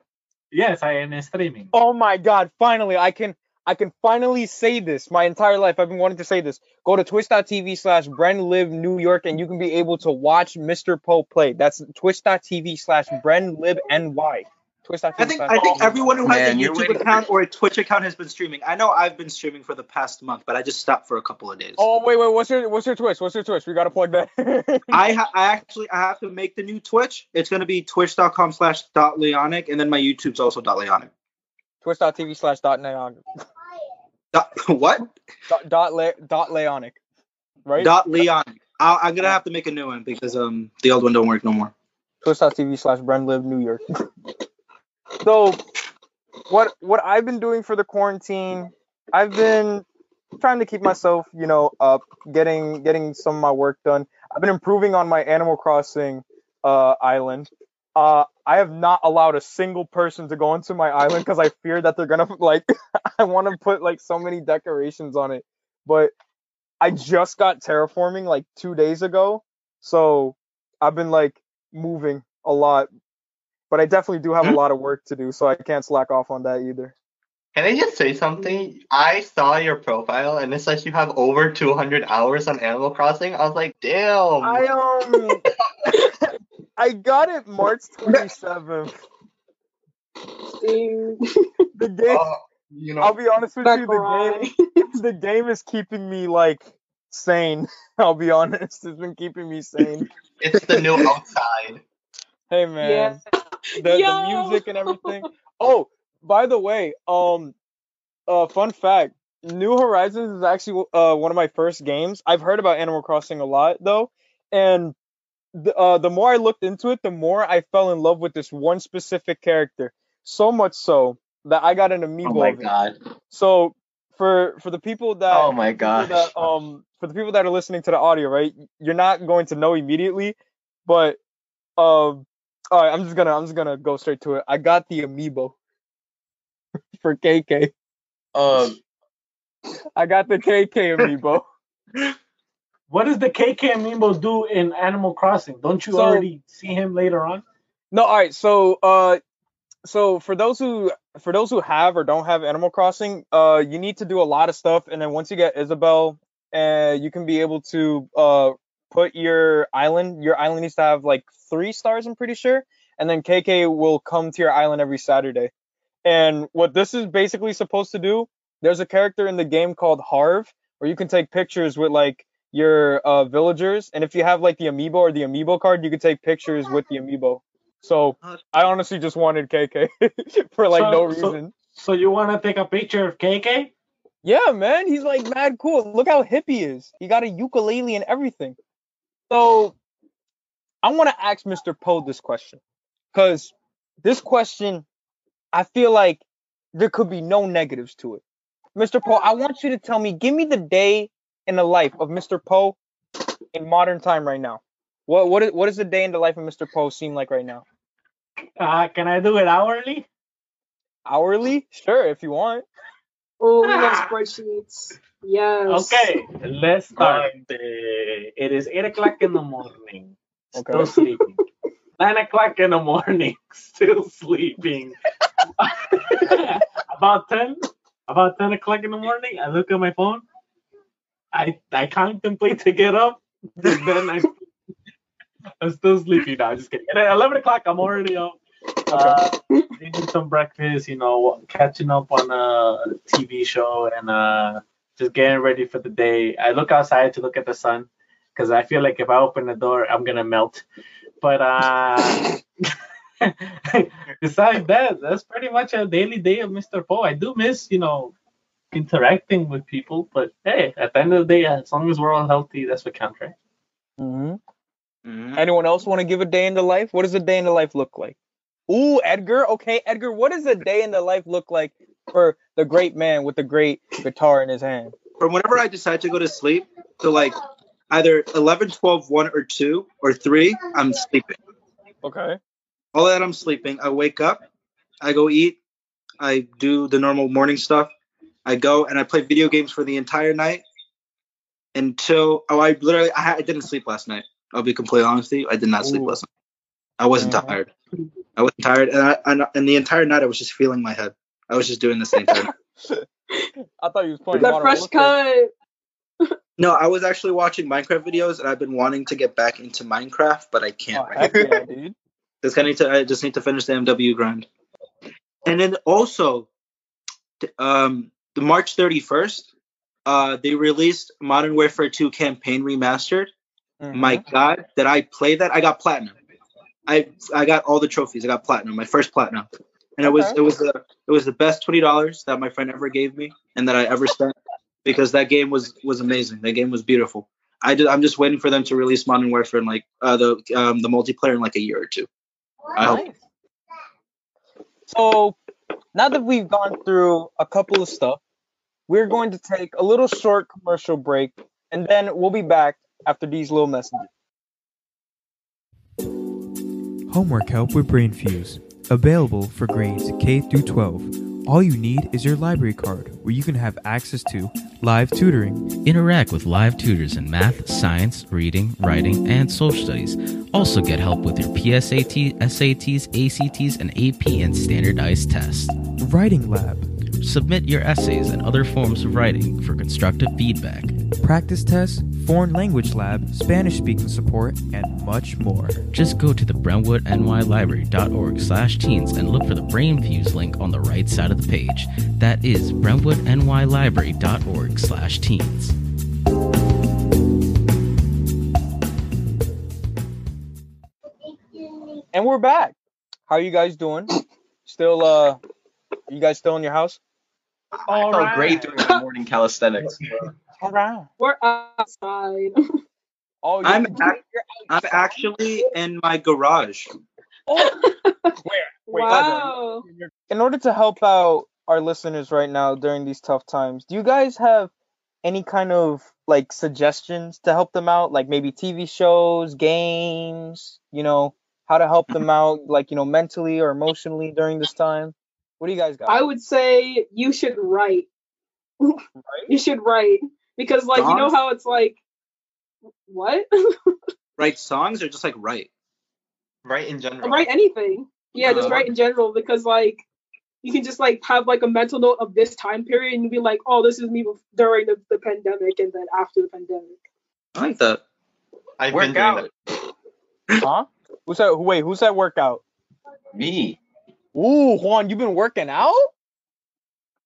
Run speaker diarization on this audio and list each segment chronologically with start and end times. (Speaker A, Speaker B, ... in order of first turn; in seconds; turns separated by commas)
Speaker A: 0.5-1.7, Speaker B: 1.7-16.2, Speaker C: 15.2-21.8, Speaker D: 16.2-17.3, Speaker B: 21.8-25.1, Speaker C: 24.9-31.1, Speaker B: 31.8-33.2, Speaker C: 34.3-35.1, Speaker B: 35.5-37.0, Speaker B: 37.7-38.2, Speaker C: 37.8-41.7, Speaker B: 42.2-43.8, Speaker B: 45.2-45.6, Speaker B: 46.5-49.9, Speaker B: 50.4-66.1, Speaker B: 66.8-72.9, Speaker B: 73.7-76.9, Speaker E: 77.5-84.7, Speaker B: 84.4-85.5, Speaker B: 86.8-88.9, Speaker F: 90.5-91.5, Speaker B: 91.8-92.3, Speaker E: 92.1-93.1, Speaker B: 93.0-100.1, Speaker F: 93.6-94.8, Speaker E: 100.4-101.8, Speaker C: 100.6-101.1, Speaker B: 102.5-103.2, Speaker F: 102.8-105.3, Speaker B: 103.8-107.5, Speaker B: 108.3-115.0, Speaker B: 115.5-122.7, Speaker D: 122.2-123.0, Speaker B: 123.3-131.2, Speaker D: 125.3-126.3, Speaker B: 131.8-135.6, Speaker B: 137.0-137.7, Speaker D: 138.3-138.8, Speaker B: 140.0-141.5, Speaker A: 142.9-147.4, Speaker B: 145.9-146.2, Speaker B: 147.9-149.2, Speaker B: 149.8-165.5, Speaker B: 166.1-181.5, Speaker A: 180.7-183.7, Speaker B: 184.2-188.6, Speaker B: 189.3-189.8, Speaker B: 190.8-192.6, Speaker B: 193.1-194.8, Speaker B: 195.5-198.2, Speaker B: 198.8-202.8, Speaker B: 203.5-207.6, Speaker A: 208.6-210.1, Speaker B: 211.1-212.6, Speaker F: 213.4-216.1, Speaker A: 213.7-214.1, Speaker A: 215.7-221.4, Speaker B: 220.5-220.9, Speaker A: 222.0-225.0, Speaker A: 225.6-230.2, Speaker A: 231.3-234.4, Speaker A: 235.6-238.4, Speaker B: 238.9-239.2, Speaker A: 238.9-250.6, Speaker A: 251.2-252.4, Speaker A: 253.2-258.1, Speaker A: 258.7-263.3, Speaker B: 264.0-264.4, Speaker C: 265.1-265.4, Speaker B: 265.4-268.2, Speaker B: 268.7-274.9, Speaker C: 275.2-277.4, Speaker C: 277.9-281.4, Speaker B: 282.0-282.4, Speaker C: 282.9-284.4, Speaker C: 285.0-285.6, Speaker C: 286.2-287.9, Speaker C: 288.4-290.6, Speaker C: 291.7-296.3, Speaker B: 295.8-296.2, Speaker C: 297.0-297.7, Speaker B: 297.2-297.6, Speaker C: 298.4-302.5, Speaker B: 302.2-303.1, Speaker B: 303.8-305.1, Speaker F: 304.3-305.5, Speaker C: 306.6-311.6, Speaker B: 310.9-311.9, Speaker C: 312.4-314.4, Speaker C: 315.4-316.5, Speaker C: 317.4-319.5, Speaker C: 320.1-323.3, Speaker B: 323.8-324.2, Speaker C: 323.9-326.1, Speaker C: 326.9-342.1, Speaker B: 330.0-330.4, Speaker C: 342.8-343.0, Speaker B: 342.8-343.1, Speaker B: 344.9-345.4, Speaker B: 345.9-348.2, Speaker B: 348.9-354.1, Speaker G: 357.1-365.8, Speaker H: 365.8-375.8, Speaker G: 375.9-376.9, Speaker H: 377.2-381.0, Speaker G: 381.2-385.9, Speaker H: 385.9-395.8, Speaker B: 402.1-402.8, Speaker B: 403.3-404.1, Speaker B: 404.6-405.4, Speaker B: 406.1-407.0, Speaker A: 407.9-408.8, Speaker D: 407.9-410.1, Speaker B: 410.6-411.1, Speaker F: 411.2-412.6, Speaker B: 413.4-415.2, Speaker C: 413.6-416.9, Speaker B: 417.5-417.8, Speaker F: 417.6-418.4, Speaker B: 418.4-419.5, Speaker F: 418.9-419.9, Speaker C: 419.1-419.5, Speaker B: 420.3-424.7, Speaker B: 425.2-436.2, Speaker F: 436.1-438.1, Speaker F: 438.8-442.0, Speaker B: 439.2-439.5, Speaker C: 440.9-441.4, Speaker F: 443.1-443.9, Speaker C: 444.4-445.7, Speaker E: 446.6-447.5, Speaker F: 447.2-450.0, Speaker C: 448.4-448.9, Speaker F: 450.6-457.0, Speaker C: 457.6-458.0, Speaker E: 458.8-459.5, Speaker D: 458.9-459.5, Speaker B: 460.6-462.6, Speaker D: 463.3-463.8, Speaker B: 464.4-466.1